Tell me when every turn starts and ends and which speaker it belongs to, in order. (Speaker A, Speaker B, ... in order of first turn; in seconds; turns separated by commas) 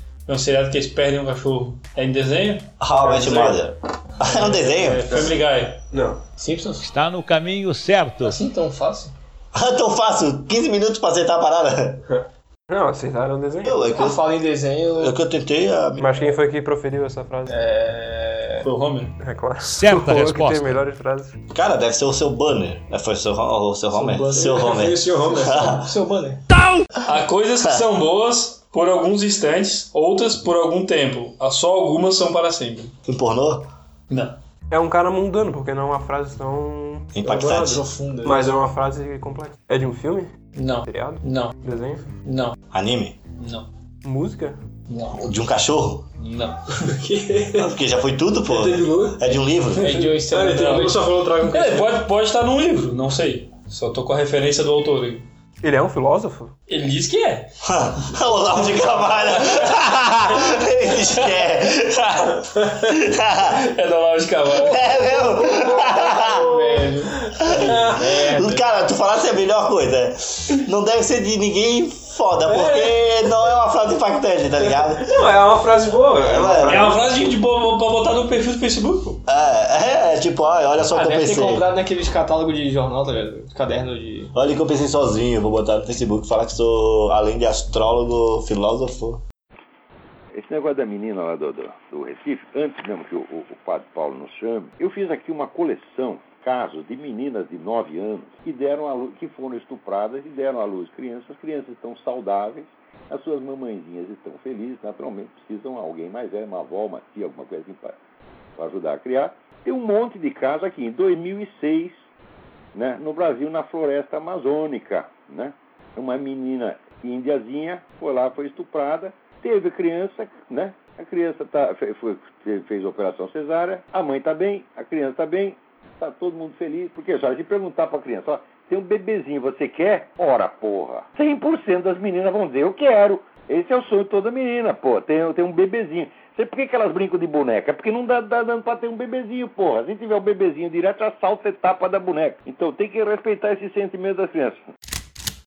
Speaker A: 0.3-2.8, Speaker B: 2.8-5.2, Speaker C: 2.9-3.5, Speaker A: 4.4-5.8, Speaker C: 5.9-6.2, Speaker D: 6.4-6.8, Speaker E: 6.8-8.4, Speaker D: 8.2-9.1, Speaker B: 9.5-12.0, Speaker C: 12.1-13.8, Speaker B: 13.6-14.2, Speaker D: 13.8-15.2, Speaker B: 15.0-16.1, Speaker C: 16.0-17.5, Speaker D: 17.5-18.6, Speaker A: 18.6-19.1, Speaker C: 19.2-21.4, Speaker E: 19.6-20.8, Speaker B: 21.5-25.9, Speaker D: 23.9-26.4, Speaker C: 24.0-25.7, Speaker A: 27.0-32.9, Speaker B: 33.1-33.7, Speaker A: 34.1-34.4, Speaker C: 34.7-40.3, Speaker B: 37.1-37.8, Speaker D: 37.4-38.6, Speaker A: 40.5-41.6, Speaker C: 40.8-42.1, Speaker A: 42.2-42.6, Speaker B: 42.7-43.2, Speaker A: 43.4-43.7, Speaker C: 44.0-44.6, Speaker A: 44.9-45.2, Speaker B: 45.1-46.0, Speaker A: 46.2-46.9, Speaker C: 46.8-47.7, Speaker B: 47.5-49.9, Speaker C: 48.5-52.0, Speaker D: 49.8-51.0, Speaker A: 50.0-55.2, Speaker C: 55.6-56.5, Speaker A: 56.7-57.5, Speaker B: 57.6-63.7, Speaker A: 58.8-59.8, Speaker A: 60.9-61.5, Speaker A: 63.4-64.8, Speaker B: 64.5-66.5, Speaker D: 65.1-68.6, Speaker B: 67.4-75.2, Speaker C: 67.6-67.9, Speaker C: 72.5-72.9, Speaker C: 75.0-77.0, Speaker B: 76.2-77.0, Speaker A: 76.6-79.2, Speaker B: 79.3-81.6, Speaker D: 80.9-84.3, Speaker B: 84.3-89.2, Speaker F: 90.3-108.0, Speaker F: 108.6-112.0, Speaker F: 112.7-144.6